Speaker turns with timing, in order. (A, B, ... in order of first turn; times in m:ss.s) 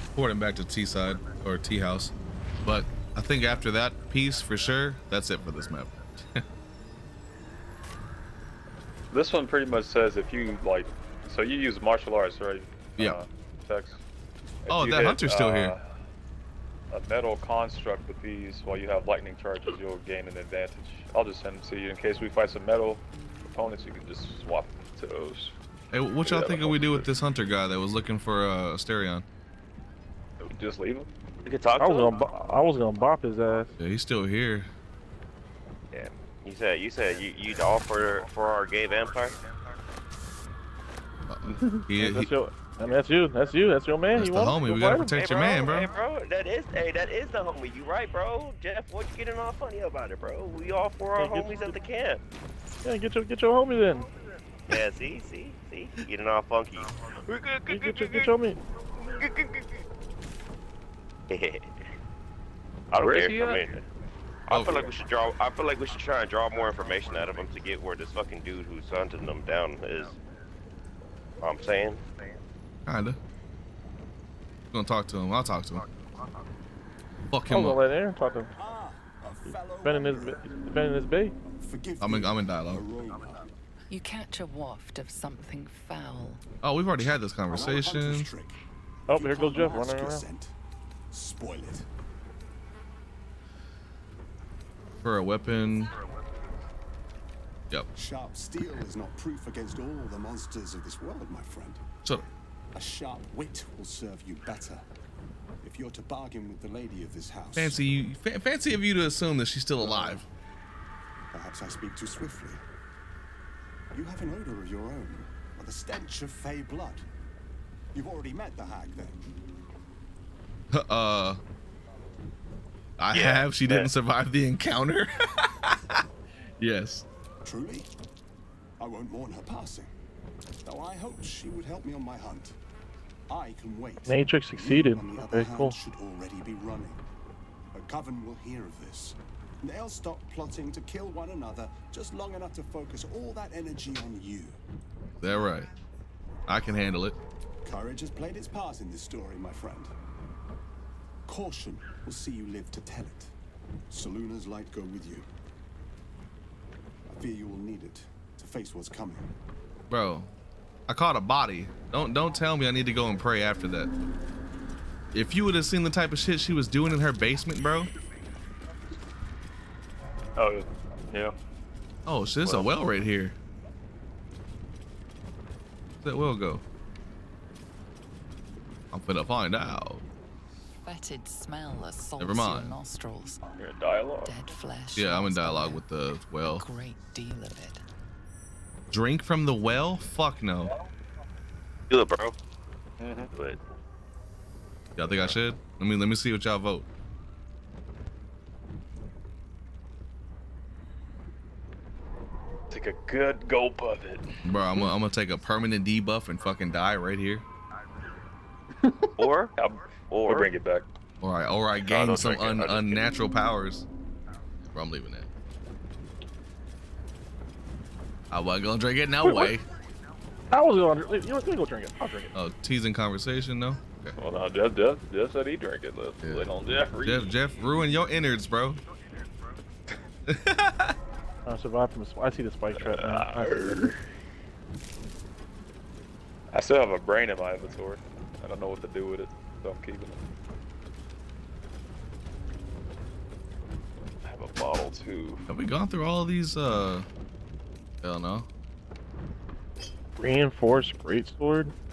0:00.2-0:06.4 A
0:09.1-0:14.0 B
0:14.6-0:15.9 B
0:14.7-0:15.8 A
0:16.9-0:25.6 B
0:25.9-0:29.3 A
0:26.2-0:27.1 B
0:30.4-0:31.1 B
0:31.4-0:32.1 C
0:31.8-0:33.7 D
0:33.8-0:34.7 A
0:35.9-0:39.4 C
0:41.3-0:42.3 A
0:41.5-0:41.8 B
0:41.9-0:45.2 D
0:44.2-0:45.9 A
0:45.1-0:52.2 C
0:51.2-0:51.8 D
0:52.8-0:54.1 D
0:54.7-0:58.4 C
0:57.7-0:58.6 D
0:59.0-0:59.8 C
1:01.3-1:01.7 C
1:02.9-1:03.8 C
1:03.0-1:03.8 B
1:04.5-1:10.2 C
1:04.5-1:04.9 A
1:11.4-1:12.0 C
1:12.9-1:13.2 A
1:14.7-1:15.8 A
1:17.3-1:17.8 A
1:17.5-1:18.5 D
1:18.6-1:20.5 E
1:19.5-1:21.4 D
1:21.6-1:23.5 E
1:22.0-1:22.8 A
1:23.9-1:26.4 F
1:26.6-1:28.3 A
1:27.5-1:30.5 E
1:29.1-1:30.2 D
1:31.1-1:31.9 E
1:35.0-1:35.9 A
1:37.9-1:41.8 E
1:42.7-1:44.8 E
1:45.6-1:47.8 E
1:47.6-1:50.2 A
1:49.8-1:50.2 E
1:51.3-1:52.6 E
1:53.9-1:57.1 E
1:57.9-1:59.2 E
2:00.7-2:01.4 A
2:03.0-2:06.0 A
2:03.1-2:03.9 C
2:06.6-2:07.1 A
2:07.4-2:07.9 E
2:08.8-2:09.9 E
2:10.6-2:12.6 E
2:13.3-2:17.0 E
2:14.1-2:15.8 D
2:17.7-2:24.6 E
2:25.2-2:25.7 A
2:26.5-2:27.2 A
2:27.6-2:29.9 E
2:31.3-2:33.3 E
2:33.9-2:35.3 E
2:37.1-2:39.3 E
2:39.9-2:40.3 A
2:40.9-2:43.9 A
2:45.1-2:47.9 A
2:50.4-2:51.4 B
2:52.1-2:53.4 A
2:56.0-2:56.6 A
2:58.9-3:00.0 A
3:00.8-3:03.4 F
3:02.2-3:02.8 A
3:03.6-3:04.4 B
3:04.2-3:05.8 F
3:05.0-3:06.7 A
3:06.5-3:07.8 F
3:08.9-3:10.7 A
3:11.9-3:12.4 C
3:13.0-3:13.3 B
3:13.3-3:13.6 C
3:15.0-3:16.9 A
3:15.0-3:15.4 B
3:22.7-3:24.8 B
3:24.4-3:27.4 A
3:28.8-3:30.9 B
3:29.2-3:29.5 C
3:30.1-3:30.5 C
3:31.2-3:33.9 A
3:31.8-3:33.1 B
3:34.6-3:35.3 A
3:38.3-3:39.7 A
3:39.2-3:39.5 D
3:40.5-3:42.3 D
3:42.3-3:44.2 A
3:44.2-3:47.4 B
3:46.2-3:46.5 A
3:47.0-3:48.8 A
3:50.3-3:51.0 A
3:51.5-3:53.9 D
3:52.8-3:54.0 B
3:56.5-4:00.2 B
4:04.2-4:05.4 B
4:05.5-4:07.1 A
4:08.0-4:08.5 A
4:10.2-4:11.7 D